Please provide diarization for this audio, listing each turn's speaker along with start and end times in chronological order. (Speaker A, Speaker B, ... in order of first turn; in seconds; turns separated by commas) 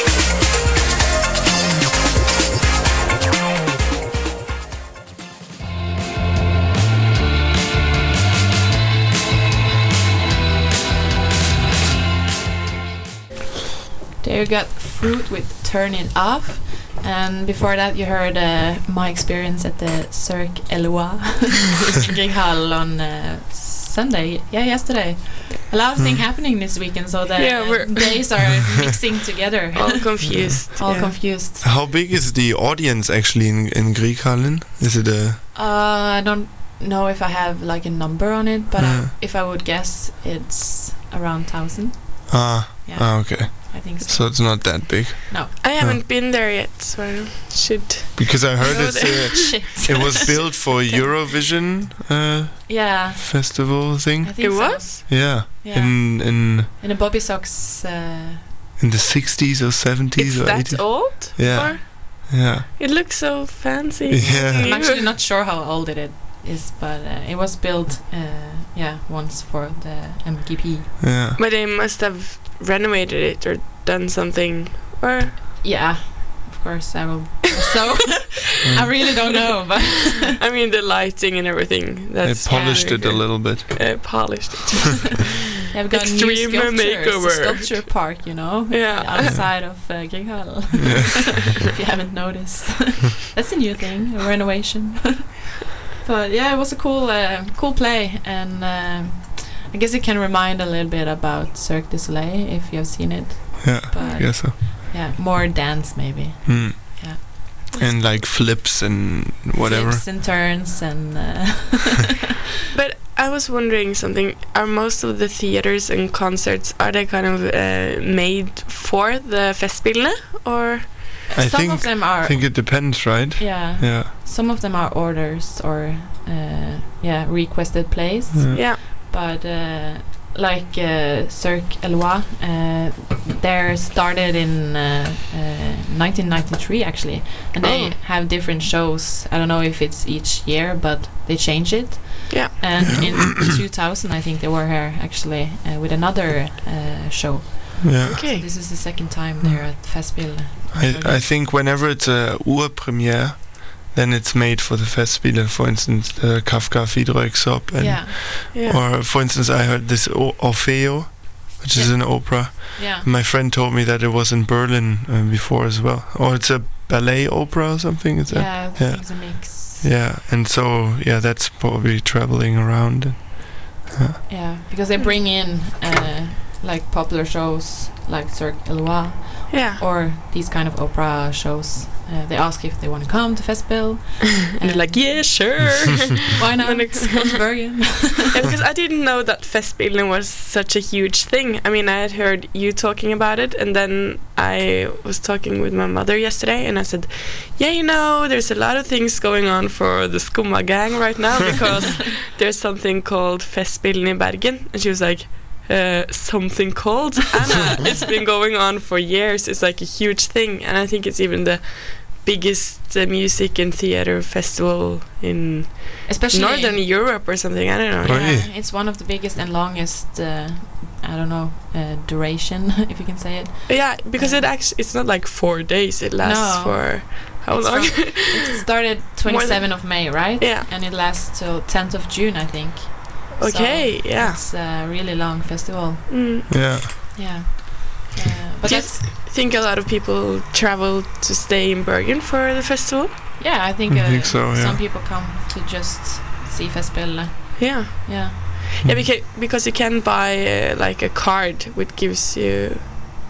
Speaker A: 14.2-31.6, Speaker B: 27.4-28.6, Speaker B: 29.7-31.1, Speaker C: 30.4-35.4, Speaker A: 35.5-45.5, Speaker C: 38.8-39.1, Speaker C: 42.3-46.0, Speaker B: 45.6-49.6, Speaker C: 48.1-56.7, Speaker A: 49.4-51.1, Speaker A: 52.7-58.5, Speaker B: 54.4-54.9, Speaker C: 58.8-62.7, Speaker B: 60.1-65.1, Speaker C: 64.1-64.7, Speaker A: 64.6-71.0, Speaker C: 71.0-71.4, Speaker B: 71.4-75.4, Speaker A: 75.6-80.3, Speaker B: 80.4-85.3, Speaker C: 82.2-84.2, Speaker A: 82.5-83.2, Speaker A: 85.7-95.3, Speaker B: 85.9-87.9, Speaker B: 88.7-89.3, Speaker C: 90.8-91.3, Speaker A: 96.0-107.2, Speaker C: 103.6-104.5, Speaker B: 104.0-104.2, Speaker C: 106.4-110.0, Speaker A: 109.6-112.1, Speaker B: 112.7-121.2, Speaker A: 121.3-151.2, Speaker C: 121.3-124.1, Speaker C: 128.3-128.6, Speaker B: 128.5-128.8, Speaker B: 137.6-137.9, Speaker C: 142.8-143.5, Speaker C: 147.8-148.2, Speaker B: 148.1-148.4, Speaker C: 149.4-174.2, Speaker A: 157.8-158.2, Speaker B: 158.5-158.8, Speaker A: 161.7-163.1, Speaker A: 168.3-169.8, Speaker A: 174.3-185.7, Speaker B: 179.5-179.8, Speaker B: 184.6-187.4, Speaker A: 186.3-188.3, Speaker B: 188.3-218.3, Speaker A: 216.1-216.8, Speaker C: 218.0-218.5, Speaker A: 218.1-224.5, Speaker B: 223.7-228.6, Speaker A: 226.2-239.0, Speaker B: 229.2-230.7, Speaker B: 233.4-234.4, Speaker B: 236.1-236.4, Speaker C: 236.5-236.9, Speaker B: 238.6-243.1, Speaker A: 243.4-248.4, Speaker C: 243.9-244.8, Speaker B: 247.6-252.9